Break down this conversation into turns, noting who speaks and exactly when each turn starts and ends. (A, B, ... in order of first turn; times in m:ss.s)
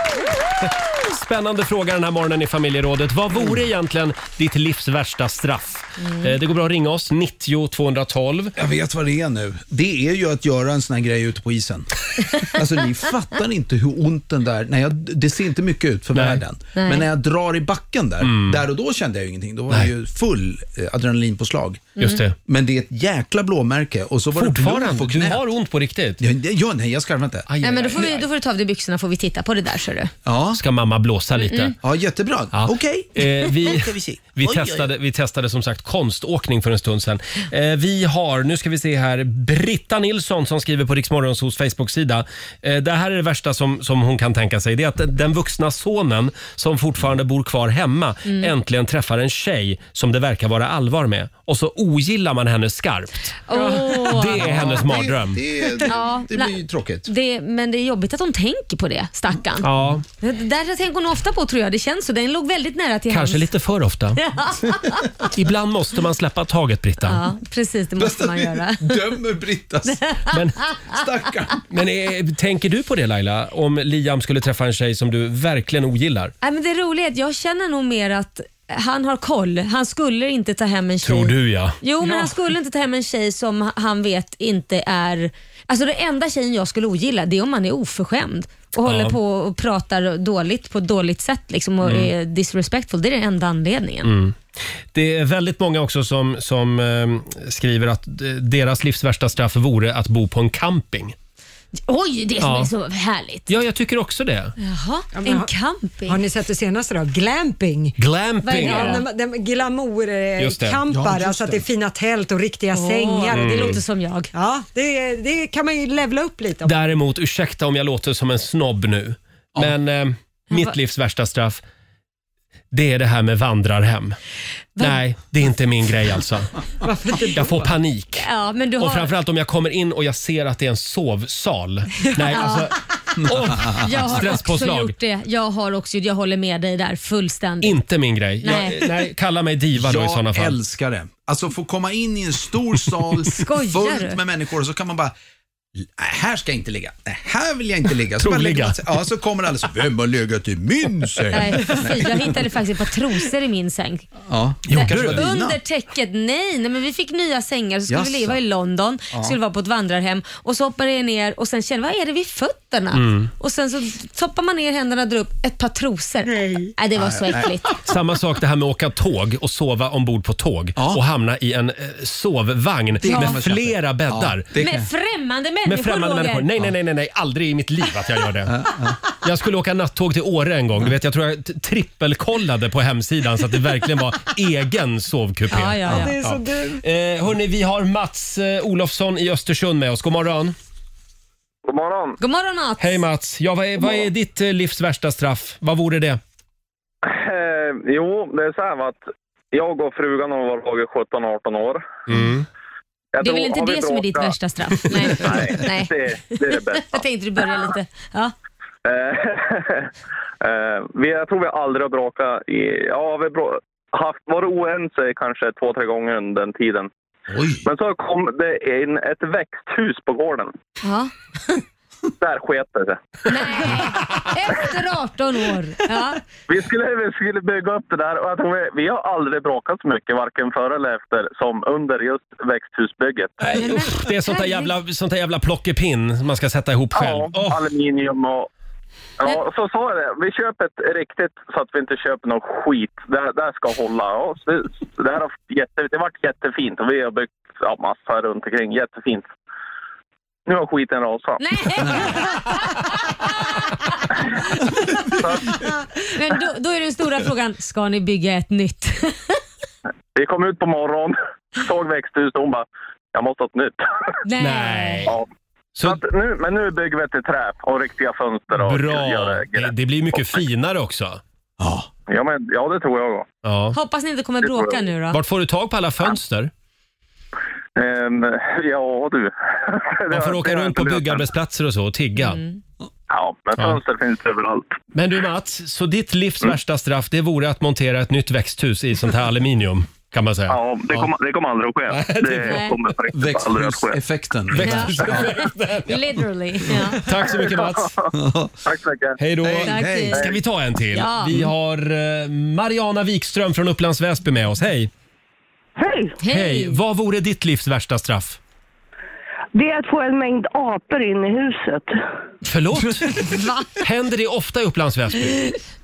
0:00.6-0:08.6 A
0:08.6-0:25.4 B
0:16.1-0:16.4 A
0:16.8-0:17.1 C
0:18.2-0:18.6 A
0:22.0-0:22.2 C
0:22.0-0:22.4 A
0:24.4-0:26.2 A
0:26.2-0:27.5 B
0:27.5-0:28.2 A
0:27.6-0:30.1 C
0:30.3-0:30.6 B
0:30.5-0:31.8 A
0:31.4-0:31.8 C
0:31.8-0:34.9 B
0:32.5-0:55.5 A
0:48.2-0:48.5 C
0:53.5-0:54.6 C
0:54.4-0:57.1 B
0:55.9-0:59.7 C
0:59.6-1:00.0 A
1:00.2-1:03.5 C
1:03.1-1:04.2 A
1:04.2-1:05.1 C
1:05.3-1:07.2 A
1:07.0-1:09.1 C
1:08.0-1:10.1 B
1:09.9-1:10.7 C
1:10.3-1:10.6 A
1:10.9-1:11.6 B
1:11.7-1:16.3 A
1:16.4-1:34.1 C
1:21.0-1:21.8 A
1:28.8-1:29.2 A
1:31.8-1:32.1 A
1:34.0-1:34.4 A
1:34.9-1:41.2 A
1:41.9-1:43.5 C
1:42.4-1:42.7 A
1:43.5-1:44.6 A
1:44.6-1:46.2 C
1:45.1-1:45.5 D
1:46.1-1:48.0 D
1:48.0-1:49.0 A
1:48.4-1:49.0 C
1:48.5-1:53.8 D
1:50.4-1:50.8 A
1:50.9-1:51.6 B
1:52.7-1:54.3 C
1:53.3-1:53.8 A
1:54.3-1:56.8 D
1:56.6-2:01.6 A
2:02.7-2:04.2 A
2:04.8-2:06.5 A
2:06.8-2:07.7 D
2:07.3-2:08.3 A
2:08.2-2:09.1 C
2:08.8-2:15.0 A
2:12.0-2:12.3 D
2:12.3-2:12.7 C
2:13.2-2:13.8 B
2:13.7-2:17.8 C
2:17.6-2:20.6 A
2:18.4-2:18.8 C
2:19.8-2:25.1 B
2:23.4-2:24.2 C
2:25.8-2:32.4 B
2:28.2-2:29.0 A
2:31.3-2:34.1 C
2:34.3-2:35.6 B
2:34.7-2:35.2 A
2:34.7-2:47.7 C
2:37.9-2:38.4 B
2:39.1-2:39.4 B
2:42.9-2:43.3 A
2:46.4-2:46.7 D
2:47.0-2:47.8 B
2:47.8-2:54.5 A
2:50.8-2:51.0 B
2:53.0-2:54.9 B
2:53.0-2:53.4 C
2:54.6-2:56.5 C
2:55.7-2:58.6 A
2:58.5-2:59.0 B
2:59.1-3:10.6 A
3:05.5-3:06.1 C
3:05.9-3:06.8 D
3:11.6-3:12.2 E
3:12.2-3:13.0 C
3:12.8-3:16.2 A
3:17.0-3:21.9 E
3:22.1-3:22.5 A
3:23.2-3:24.4 E
3:23.2-3:28.3 C
3:25.1-3:27.0 E
3:28.8-3:29.9 E
3:30.4-3:36.9 E
3:37.3-3:37.6 B
3:37.6-3:40.5 E
3:40.8-3:41.1 C
3:42.2-3:43.2 E
3:43.3-3:46.2 C
3:46.5-3:53.4 E
3:53.4-3:57.6 A
3:53.6-3:54.7 C
3:56.9-3:58.5 E
3:59.2-4:09.3 E
4:10.5-4:11.4 E
4:11.4-4:13.0 C
4:16.1-4:19.4 C
4:20.2-4:24.2 E
4:24.2-4:25.1 C
4:24.4-4:25.2 A
4:25.8-4:30.4 E
4:28.5-4:31.2 A
4:31.6-4:31.9 B
4:32.1-4:33.3 E
4:33.4-4:33.8 A
4:33.7-4:35.2 C
4:34.4-4:34.8 E
4:35.1-4:36.5 A
4:37.8-4:41.3 E
4:40.1-4:42.4 A
4:42.2-4:42.6 C
4:43.1-4:44.7 E
4:44.9-4:51.1 A
4:50.5-4:54.0 E
4:51.9-4:52.8 A
4:52.4-4:52.7 C
4:53.1-4:55.3 B
4:54.5-4:56.2 A
4:54.6-4:57.0 C
4:56.9-4:57.9 A
4:57.5-4:58.1 E
4:58.1-4:58.6 B
4:58.7-4:59.2 E
4:59.2-5:04.9 A
4:59.4-5:00.2 B
4:59.6-5:00.3 C
5:00.9-5:01.3 C
5:05.8-5:06.2 F
5:06.2-5:06.8 C
5:06.3-5:08.4 A
5:09.5-5:12.0 F
5:12.4-5:13.2 A
5:13.2-5:13.7 C
5:13.8-5:15.4 A